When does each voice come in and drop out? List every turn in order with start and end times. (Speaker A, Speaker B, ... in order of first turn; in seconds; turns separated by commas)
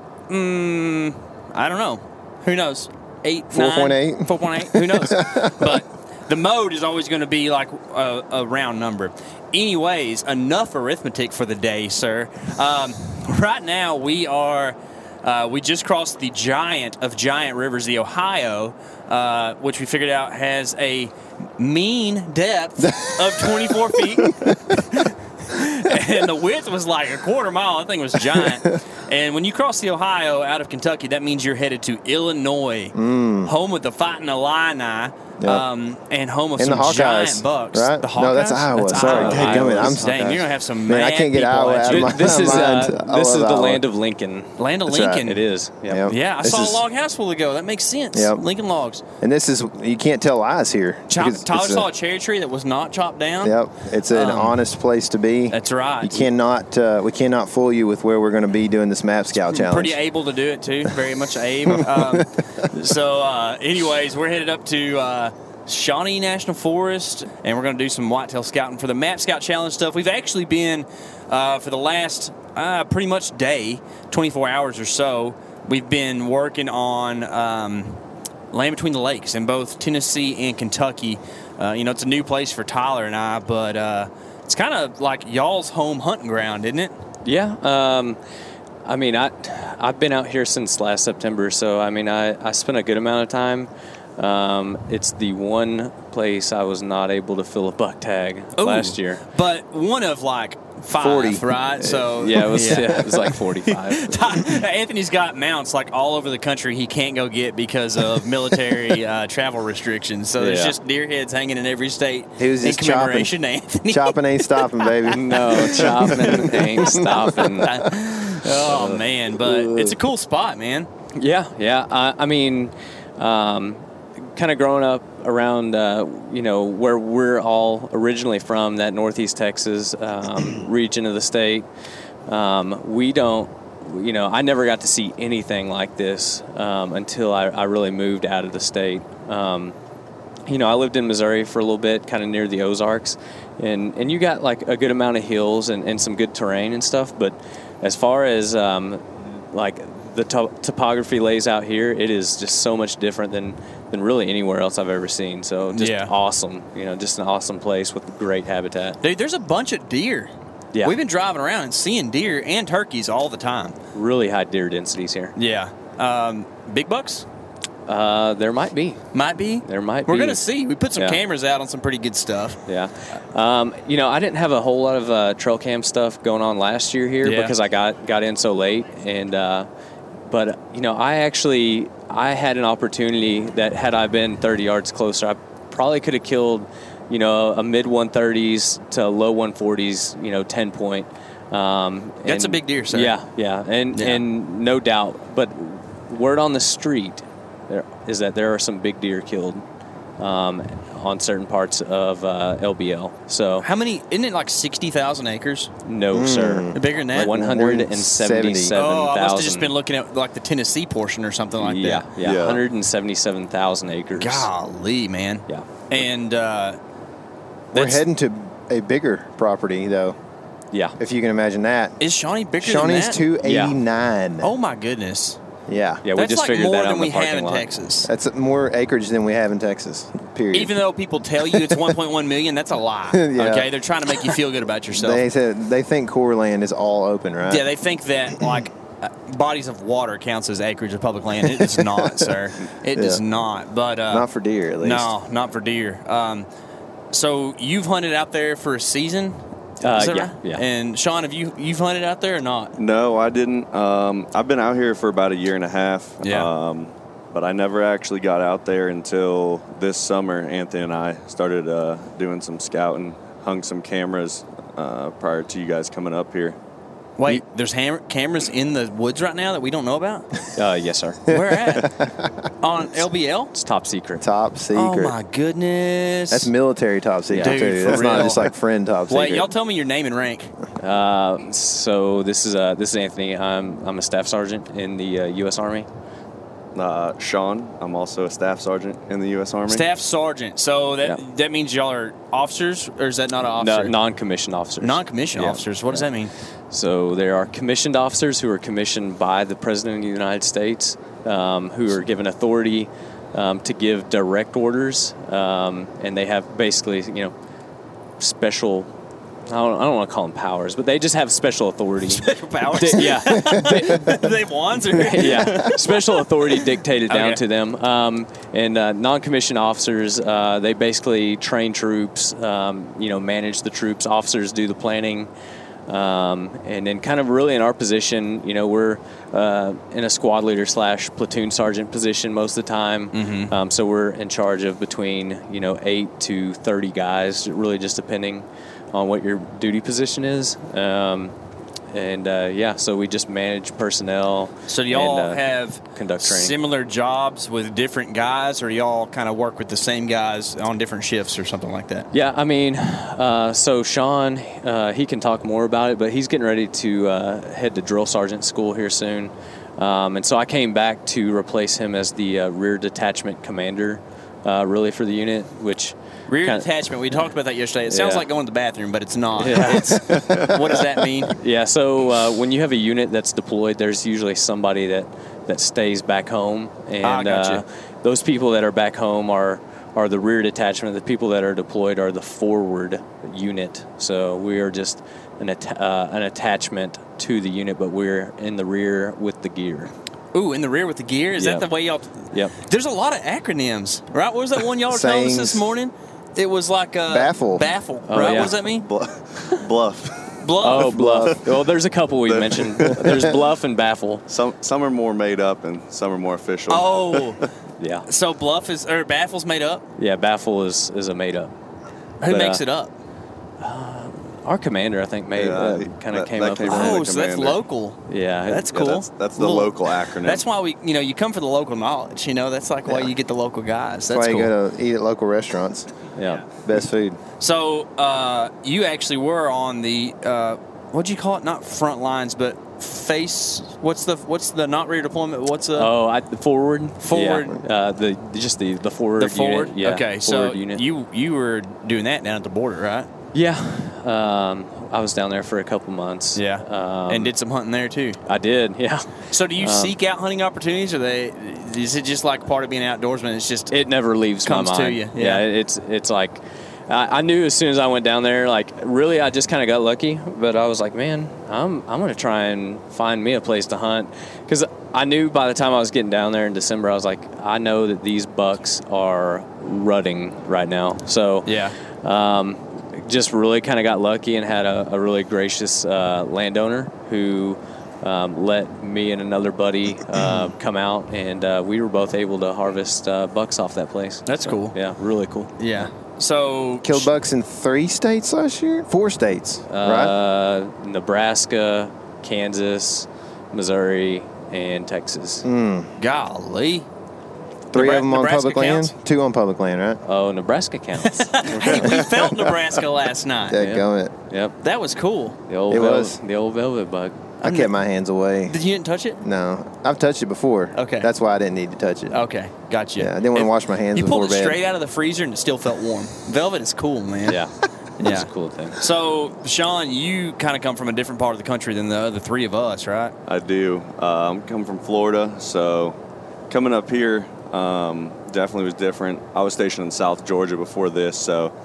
Speaker A: 0.3-42.8, Speaker B: 3.5-5.8, Speaker B: 22.8-24.8, Speaker B: 32.9-33.5, Speaker B: 35.4-35.6, Speaker B: 36.6-43.8, Speaker C: 39.0-40.0, Speaker D: 39.1-39.8, Speaker C: 41.9-44.6, Speaker A: 44.6-45.4, Speaker B: 44.9-45.3, Speaker C: 45.2-46.1, Speaker B: 45.9-46.8, Speaker A: 46.1-49.0, Speaker B: 48.1-48.4, Speaker B: 49.2-51.9, Speaker A: 51.1-53.6, Speaker B: 53.4-60.0, Speaker A: 54.1-54.6, Speaker A: 55.5-56.3, Speaker A: 59.4-78.0, Speaker B: 61.7-62.7, Speaker A: 78.5-86.9, Speaker C: 87.2-88.2, Speaker C: 88.8-99.2, Speaker A: 98.6-120.9, Speaker B: 101.0-102.3, Speaker C: 102.2-104.2, Speaker C: 110.4-110.8, Speaker B: 112.4-113.3, Speaker B: 113.9-118.0, Speaker C: 115.1-117.8, Speaker C: 118.7-119.0, Speaker B: 119.4-120.0, Speaker C: 121.2-131.7, Speaker C: 132.3-139.8, Speaker C: 140.5-159.0, Speaker A: 155.8-156.1, Speaker A: 159.0-163.8, Speaker C: 163.9-165.3, Speaker A: 165.4-167.3, Speaker C: 167.9-169.0, Speaker A: 169.1-172.6, Speaker C: 169.6-170.4, Speaker C: 171.0-171.2, Speaker C: 172.7-179.7, Speaker A: 177.2-177.6, Speaker C: 180.3-199.6, Speaker A: 192.2-193.1, Speaker A: 193.9-194.2, Speaker C: 200.2-203.7, Speaker A: 203.6-205.7, Speaker C: 205.8-209.7, Speaker B: 206.1-208.8, Speaker A: 206.7-207.3, Speaker A: 208.7-212.1, Speaker C: 211.6-214.5, Speaker D: 212.2-212.6, Speaker A: 214.2-216.8, Speaker A: 217.7-218.1, Speaker B: 217.7-220.2, Speaker C: 220.7-221.0, Speaker B: 221.0-222.0, Speaker A: 222.0-223.2, Speaker B: 222.6-224.5, Speaker C: 223.4-223.8, Speaker A: 224.4-225.4, Speaker B: 225.7-226.0, Speaker C: 226.0-227.7, Speaker A: 226.2-228.1, Speaker B: 228.0-230.7, Speaker A: 230.5-235.2, Speaker B: 231.5-232.0, Speaker B: 233.1-234.4, Speaker B: 234.9-237.7, Speaker A: 237.4-244.3, Speaker B: 241.5-242.3, Speaker B: 242.9-243.2, Speaker B: 244.1-245.1, Speaker A: 244.8-246.5, Speaker A: 247.1-252.8, Speaker C: 249.8-250.6, Speaker D: 252.8-266.6, Speaker A: 256.2-256.5, Speaker A: 267.2-270.3, Speaker C: 270.6-271.3, Speaker A: 271.3-271.9, Speaker B: 271.3-272.3, Speaker A: 272.6-273.5, Speaker C: 273.5-274.3, Speaker B: 274.2-275.1, Speaker A: 274.8-276.5, Speaker B: 276.3-279.5, Speaker C: 277.3-278.3, Speaker A: 277.4-278.5, Speaker A: 279.1-280.5, Speaker C: 280.8-285.9, Speaker D: 286.7-289.9, Speaker A: 289.7-293.9, Speaker C: 293.6-296.1, Speaker A: 294.8-296.3, Speaker C: 296.7-307.3, Speaker C: 308.2-308.9, Speaker C: 309.5-314.3, Speaker A: 312.2-316.3, Speaker B: 313.5-314.1, Speaker C: 314.9-325.3, Speaker A: 317.1-317.4, Speaker C: 325.9-341.3, Speaker A: 333.1-333.5, Speaker C: 341.9-346.6, Speaker A: 344.7-352.1, Speaker C: 352.1-366.7, Speaker A: 366.3-371.4, Speaker C: 367.9-368.3, Speaker C: 369.4-370.3, Speaker D: 370.2-370.5, Speaker C: 371.3-389.9, Speaker A: 377.0-377.6, Speaker A: 390.3-398.9, Speaker C: 391.4-391.7, Speaker B: 394.9-395.7, Speaker B: 397.1-397.7, Speaker C: 398.1-398.6, Speaker D: 398.8-400.4, Speaker A: 400.4-401.0, Speaker C: 400.6-404.2, Speaker B: 400.8-401.5, Speaker D: 402.3-403.3, Speaker B: 402.8-403.2, Speaker D: 404.3-407.4, Speaker A: 406.7-407.5, Speaker C: 407.8-408.1, Speaker A: 408.1-409.9, Speaker C: 410.0-411.5, Speaker A: 412.2-412.9, Speaker C: 412.3-412.6, Speaker C: 413.6-417.0, Speaker D: 415.4-417.6, Speaker A: 416.6-424.5, Speaker C: 418.1-418.7, Speaker D: 418.7-420.4, Speaker B: 424.1-425.9, Speaker C: 426.1-426.4, Speaker B: 426.6-427.2, Speaker A: 427.4-435.9, Speaker C: 435.8-440.8, Speaker A: 437.0-437.6, Speaker A: 439.2-443.1, Speaker C: 443.3-447.3, Speaker A: 446.4-448.2, Speaker C: 448.2-449.9, Speaker A: 449.3-453.7, Speaker C: 453.7-485.9, Speaker A: 454.4-455.4, Speaker A: 471.5-471.8, Speaker A: 484.3-484.8, Speaker A: 485.6-487.1, Speaker B: 486.8-490.1, Speaker C: 489.7-495.5, Speaker B: 495.4-495.9, Speaker A: 496.0-496.9, Speaker B: 497.7-500.0, Speaker A: 497.7-498.9, Speaker C: 500.0-501.9, Speaker A: 501.0-503.6, Speaker B: 501.6-502.6, Speaker B: 503.5-504.1, Speaker C: 503.6-504.6, Speaker A: 504.6-505.4, Speaker C: 505.5-507.3, Speaker B: 505.7-506.2, Speaker B: 507.4-508.6, Speaker A: 507.4-507.7, Speaker A: 508.5-509.2, Speaker B: 509.2-512.2, Speaker A: 510.8-511.1, Speaker A: 512.1-517.4, Speaker B: 513.0-514.6, Speaker C: 517.2-518.8, Speaker A: 518.0-523.1, Speaker D: 523.3-526.0, Speaker D: 526.5-531.5